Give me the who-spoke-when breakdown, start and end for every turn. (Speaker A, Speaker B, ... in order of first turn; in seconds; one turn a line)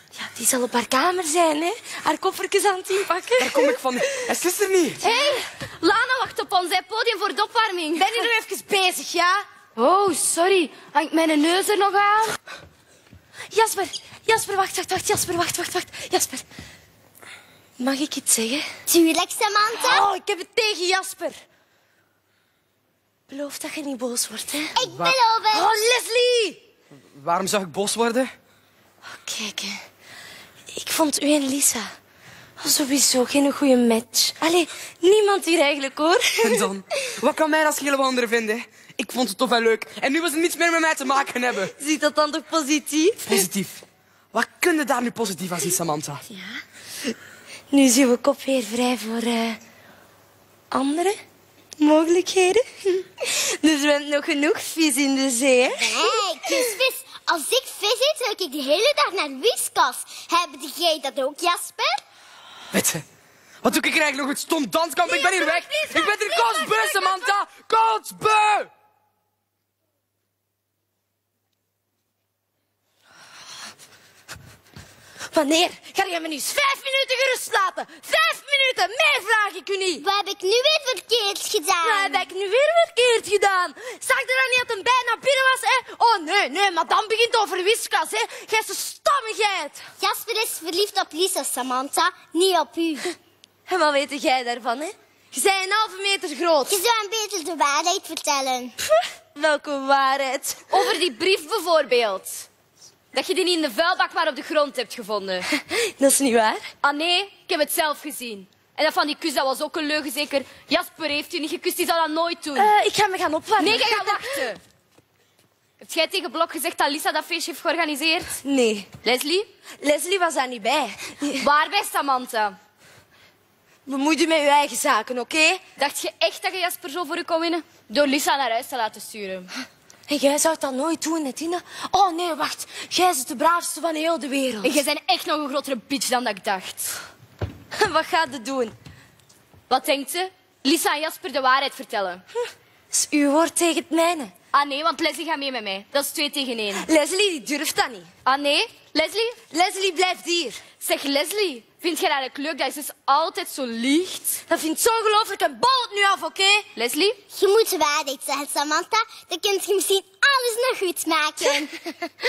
Speaker A: 0.2-3.8
Speaker B: 3.4-5.0
Speaker C: 5.0-8.3
Speaker A: 8.0-9.4
Speaker C: 9.8-12.4
Speaker A: 13.5-16.4
Speaker A: 17.8-18.7
Speaker D: 18.9-20.1
Speaker A: 19.7-21.4
Speaker A: 23.3-24.8
Speaker D: 24.8-25.7
Speaker B: 24.9-25.1
Speaker A: 25.5-26.6
Speaker B: 27.1-28.3
Speaker A: 29.1-29.8
Speaker A: 30.7-31.9
Speaker A: 32.6-36.7
Speaker B: 36.4-41.7
Speaker A: 41.7-43.5
Speaker B: 43.3-43.8
Speaker B: 44.3-46.2
Speaker A: 47.7-49.6
Speaker A: 50.7-51.2
Speaker A: 51.8-56.2
Speaker D: 55.7-62.0
Speaker B: 62.7-63.0
Speaker B: 63.6-68.7
Speaker D: 65.1-67.3
Speaker A: 75.3-80.0
Speaker D: 80.0-82.3
Speaker A: 81.8-89.8
Speaker D: 90.0-93.1
Speaker A: 93.7-96.8
Speaker D: 96.7-98.8
Speaker A: 99.3-100.7
Speaker C: 100.7-102.5
Speaker C: 103.1-105.5
Speaker A: 105.8-106.7
Speaker C: 106.8-112.7
Speaker A: 112.5-114.5
Speaker C: 113.6-114.6
Speaker C: 115.8-118.4
Speaker A: 118.4-118.9
Speaker C: 119.0-119.5
Speaker A: 119.8-121.5
Speaker C: 121.4-122.6
Speaker A: 123.9-125.6
Speaker C: 125.8-129.5
Speaker A: 130.1-134.8
Speaker C: 134.6-137.0
Speaker A: 137.7-138.8
Speaker C: 139.7-142.2
Speaker A: 142.9-144.3
Speaker C: 144.5-146.9
Speaker A: 146.7-148.1
Speaker C: 148.3-149.4
Speaker A: 149.5-150.6
Speaker C: 150.8-154.4
Speaker A: 154.5-156.7
Speaker C: 156.8-157.2
Speaker D: 157.3-161.7